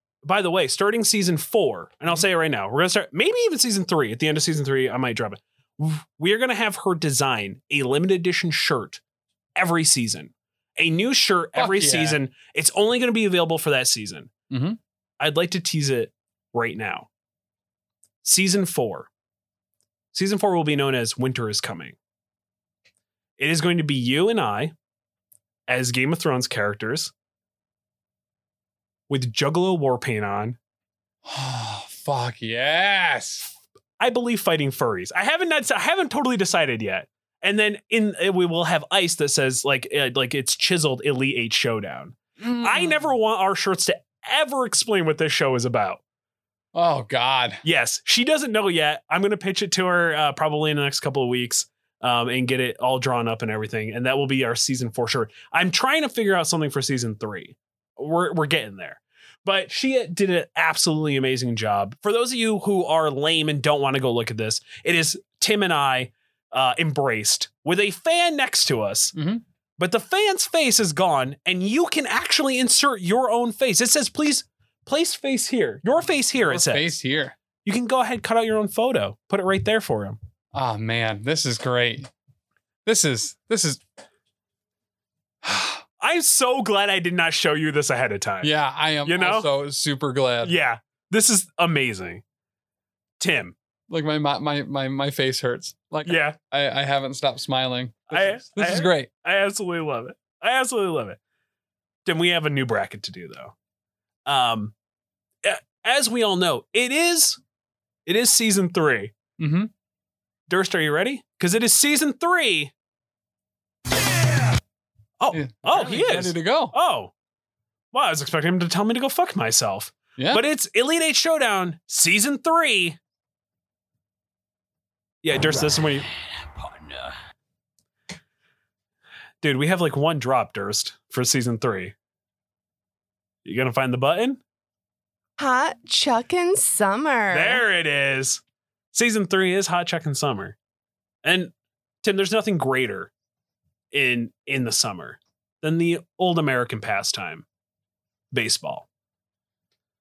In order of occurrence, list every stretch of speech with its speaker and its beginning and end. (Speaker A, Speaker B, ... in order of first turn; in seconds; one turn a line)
Speaker A: 0.2-9.0
Speaker A: 9.6-14.3
Speaker B: 11.5-12.2
Speaker B: 14.5-14.8
Speaker A: 15.2-17.1
Speaker A: 18.2-19.1
Speaker A: 20.1-21.9
Speaker A: 23.4-24.7
Speaker A: 25.7-27.1
Speaker A: 29.1-30.6
Speaker B: 31.2-33.5
Speaker A: 34.0-46.0
Speaker B: 42.4-43.0
Speaker B: 46.7-47.6
Speaker A: 47.6-69.1
Speaker B: 69.1-69.4
Speaker A: 69.8-76.9
Speaker B: 76.5-77.3
Speaker A: 77.6-80.2
Speaker B: 80.5-82.1
Speaker B: 82.8-83.8
Speaker B: 85.4-85.8
Speaker A: 86.0-88.5
Speaker B: 88.4-90.5
Speaker A: 89.0-89.5
Speaker A: 90.4-92.2
Speaker A: 93.2-93.5
Speaker B: 93.9-99.1
Speaker A: 96.0-96.4
Speaker A: 98.1-101.2
Speaker A: 102.0-103.5
Speaker A: 104.3-104.7
Speaker A: 105.4-107.4
Speaker A: 108.0-109.1
Speaker B: 109.4-109.7
Speaker A: 110.5-112.7
Speaker A: 115.2-117.1
Speaker B: 115.3-116.7
Speaker A: 117.9-123.0
Speaker B: 120.2-120.4
Speaker A: 125.2-126.1
Speaker A: 129.4-131.9
Speaker A: 133.4-134.4
Speaker C: 135.4-137.6
Speaker A: 137.3-138.4
Speaker A: 138.9-140.6
Speaker A: 141.2-143.1
Speaker A: 143.9-147.4
Speaker A: 148.3-148.9